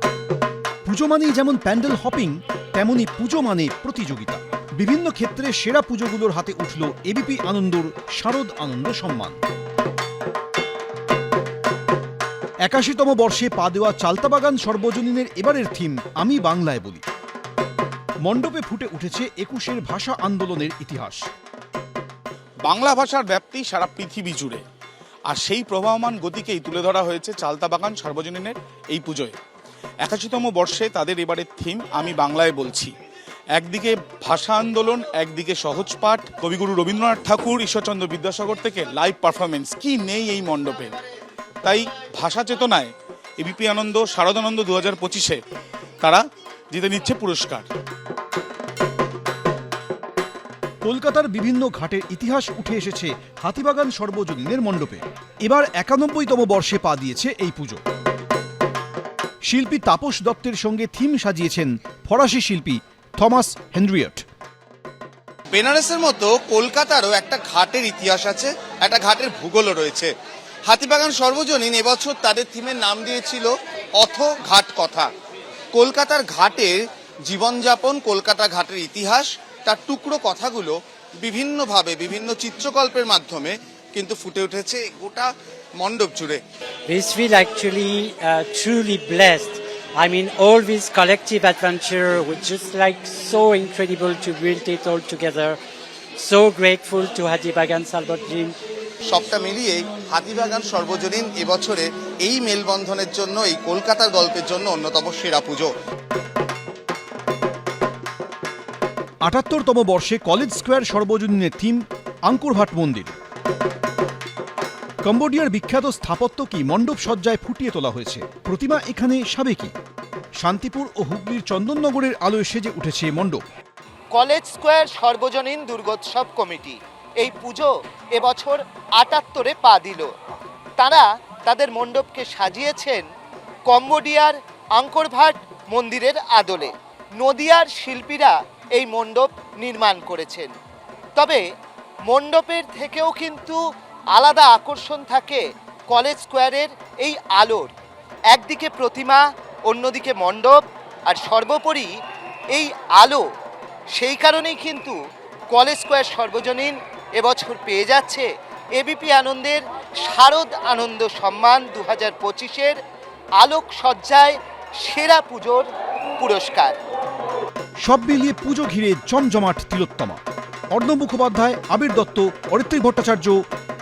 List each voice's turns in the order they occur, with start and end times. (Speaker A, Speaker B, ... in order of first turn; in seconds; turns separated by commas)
Speaker A: 0.8-9.4, Speaker A: 12.7-17.0, Speaker A: 18.2-21.2, Speaker B: 22.7-24.6, Speaker B: 25.3-29.4, Speaker B: 30.0-32.9, Speaker B: 33.5-40.9, Speaker B: 41.6-45.4, Speaker B: 46.0-47.7, Speaker A: 50.8-57.8, Speaker A: 59.5-64.2, Speaker C: 65.5-70.1, Speaker C: 70.7-75.1, Speaker C: 75.7-86.4, Speaker D: 86.9-95.6, Speaker D: 96.2-98.5, Speaker C: 99.0-105.7, Speaker A: 109.2-113.1, Speaker A: 115.0-119.7, Speaker A: 120.4-123.4, Speaker E: 124.1-130.1, Speaker E: 130.8-133.0, Speaker E: 133.7-140.5, Speaker E: 141.2-141.4, Speaker E: 142.1-143.6, Speaker E: 144.1-147.7, Speaker E: 148.3-151.9, Speaker E: 152.5-153.2, Speaker E: 154.0-155.0, Speaker E: 155.5-162.8, Speaker E: 163.4-165.7, Speaker E: 166.2-166.8, Speaker A: 167.8-170.2, Speaker A: 170.7-173.4